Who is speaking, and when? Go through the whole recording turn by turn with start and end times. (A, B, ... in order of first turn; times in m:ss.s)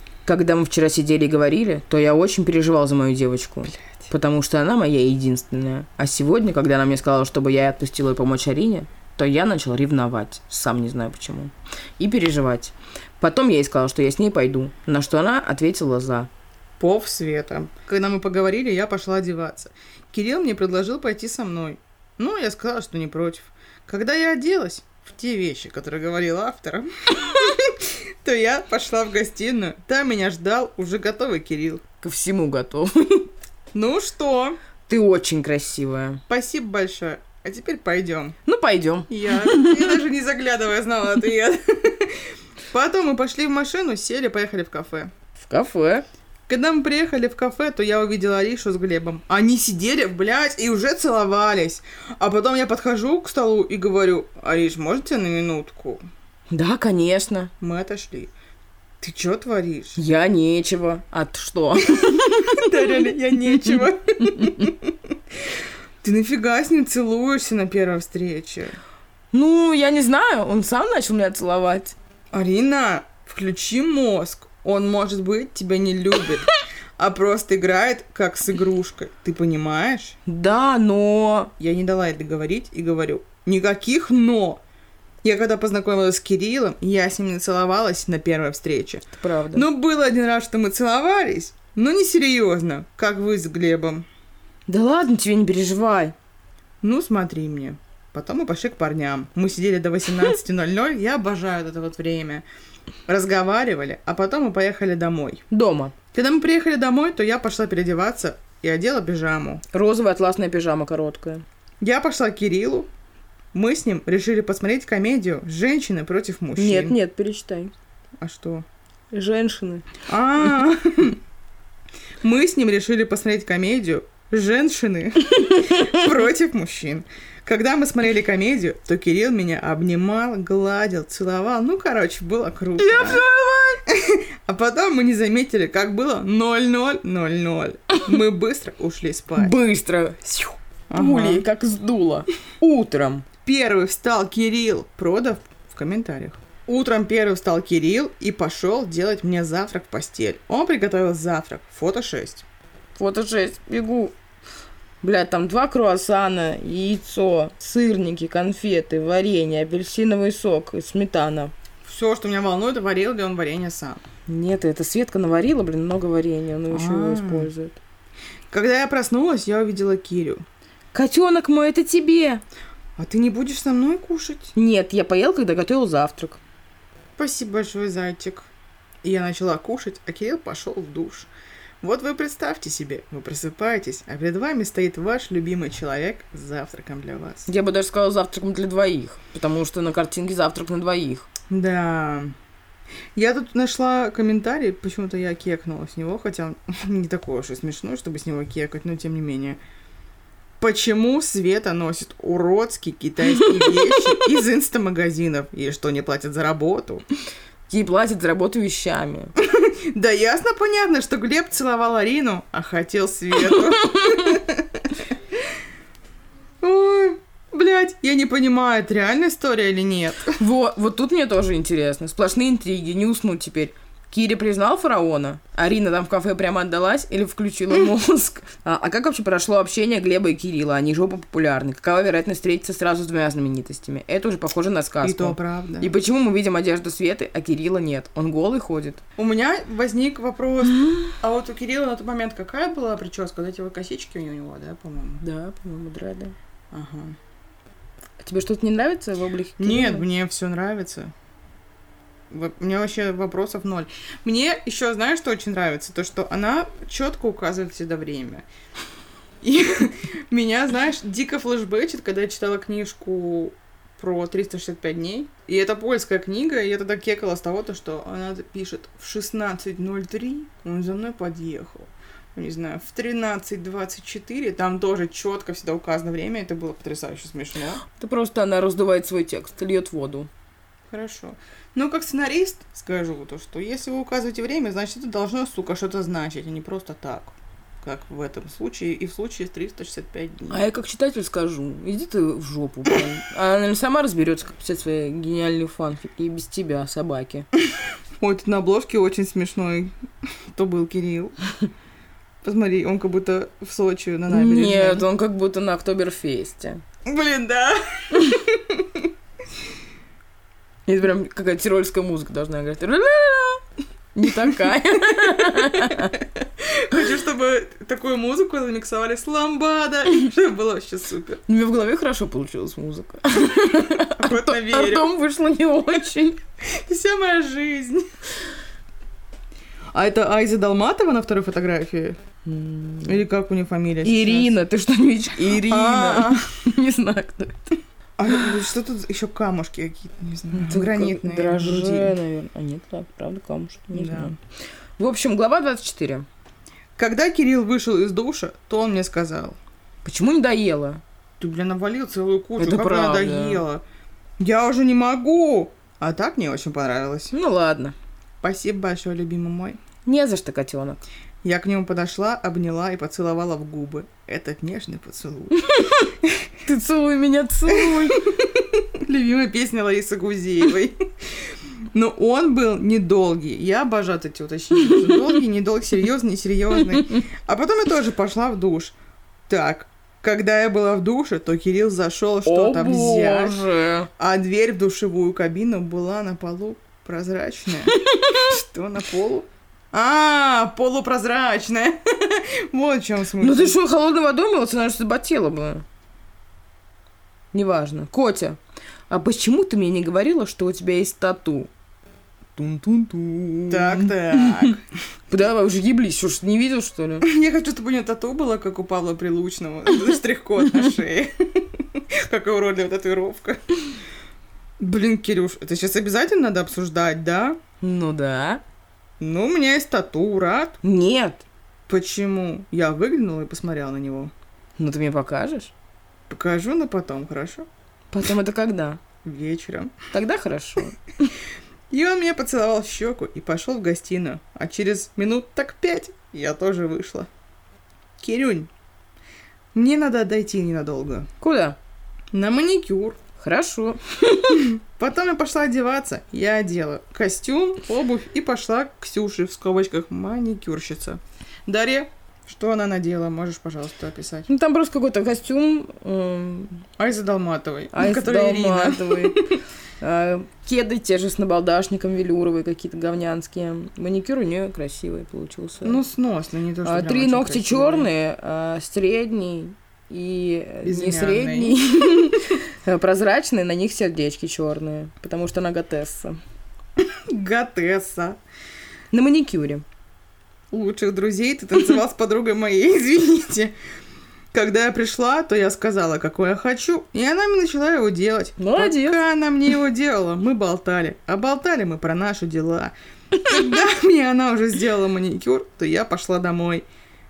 0:00.2-0:16.3 A
0:16.8-0:31.8 B
0:32.0-0:33.3 A
0:33.7-0:34.6 B
0:34.9-0:36.2 A
0:36.3-0:38.4 B
0:38.4-0:40.0 A
0:39.1-0:45.1 B
0:45.4-0:46.0 A
0:46.5-0:56.0 B
0:56.5-0:57.5 A
0:57.6-0:58.3 B
0:59.0-1:00.0 B
1:00.0-1:04.7 A
1:02.0-1:05.0 B
1:06.0-1:08.8 B
1:09.3-1:12.0 A
1:12.3-1:20.2 B
1:20.2-1:21.5 A
1:21.6-1:24.6 B
1:25.2-1:34.0 B
1:29.2-1:29.6 A
1:34.7-1:36.1 A
1:36.8-1:42.4 B
1:43.1-1:45.4 B
1:45.5-1:45.9 A
1:46.1-1:49.6 B
1:49.7-1:51.4 A
1:51.8-1:52.9 B
1:53.5-1:57.0 B
1:56.6-1:57.7 A
1:58.2-1:58.6 B
1:59.1-1:59.8 A
2:00.1-2:01.2 B
2:02.2-2:13.2 B
2:05.5-2:06.0 A
2:12.8-2:13.8 A
2:13.9-2:19.6 B
2:19.3-2:23.2 A
2:20.9-2:21.4 B
2:23.4-2:32.4 B
2:33.0-2:34.1 A
2:35.0-2:41.5 A
2:41.8-2:44.0 B
2:44.3-2:47.8 A
2:46.7-2:47.5 B
2:48.5-2:50.4 B
2:50.9-2:52.4 A
2:53.0-2:54.5 B
2:54.5-2:56.4 A
2:57.2-2:58.5 B
2:59.0-3:01.3 B
3:01.8-3:07.5 B
3:07.5-3:11.3 A
3:11.5-3:12.3 B
3:13.2-3:19.6 B
3:20.6-3:27.0 B
3:23.3-3:24.0 A
3:27.7-3:29.3 A
3:29.4-3:35.0 B
3:33.4-3:34.3 A
3:36.6-3:40.4 B
3:40.4-3:59.0 A
3:55.0-3:55.9 B
3:59.2-4:05.2 B
4:05.2-4:06.3 A
4:06.7-4:07.2 B
4:08.2-4:10.0 A
4:09.6-4:11.1 B
4:12.3-4:18.4 B
4:19.4-4:37.8 B
4:37.8-4:40.3 A
4:40.9-4:50.6 B
4:50.5-4:57.5 A
4:58.2-4:59.9 B
5:00.5-5:01.4 B
5:02.4-5:05.0 B
5:04.3-5:06.8 A
5:07.0-5:09.0 B
5:10.9-5:16.2 A
5:15.2-5:21.4 B
5:21.5-5:26.4 A
5:23.7-5:25.1 B
5:26.7-5:28.1 B
5:29.9-5:32.2 B
5:32.4-5:33.2 A
5:33.0-5:34.5 B
5:34.0-5:37.8 A
5:35.5-5:36.4 B
5:38.2-5:42.2 B
5:40.5-5:44.4 A
5:43.9-5:44.3 B
5:45.0-5:46.2 A
5:47.0-5:49.6 B
5:50.0-5:51.0 A
5:51.4-5:53.8 B
5:52.6-5:53.6 A
5:54.4-5:57.4 B
5:57.3-5:57.9 A
5:58.4-5:59.8 B
6:00.0-6:01.0 A
6:01.4-6:06.4 B
6:05.6-6:06.1 A
6:06.6-6:08.2 A
6:07.7-6:11.0 B
6:11.9-6:18.9 B
6:14.8-6:15.4 A
6:16.8-6:17.2 A
6:19.5-6:23.6 B
6:22.4-6:24.1 A
6:24.2-6:33.8 B
6:27.8-6:28.6 A
6:33.4-6:35.8 A
6:37.5-6:38.6 A
6:39.1-6:41.7 A
6:42.6-6:44.7 A
6:43.7-6:44.8 B
6:45.3-6:47.2 A
6:47.2-6:53.6 B
6:54.8-6:57.6 B
6:57.8-6:58.6 A
6:59.2-7:00.8 B
7:00.8-7:01.4 A
7:01.9-7:04.3 B
7:04.8-7:05.7 A
7:06.3-7:07.6 B
7:08.1-7:09.0 A
7:09.2-7:09.9 B
7:10.1-7:11.3 A
7:11.9-7:17.3 B
7:18.2-7:18.7 B
7:19.7-7:21.3 B
7:21.4-7:21.8 A
7:22.3-7:23.2 B
7:23.4-7:24.6 A
7:24.5-7:34.5 B
7:34.5-7:36.8 A
7:37.0-7:39.4 B
7:37.9-7:39.4 A
7:40.0-7:46.0 A
7:45.8-7:48.1 B
7:46.8-7:56.4 A
7:50.8-7:52.3 B
7:57.0-7:58.4 B
7:59.1-7:59.8 A
8:00.7-8:03.7 B
8:04.5-8:16.8 B
8:08.6-8:09.2 A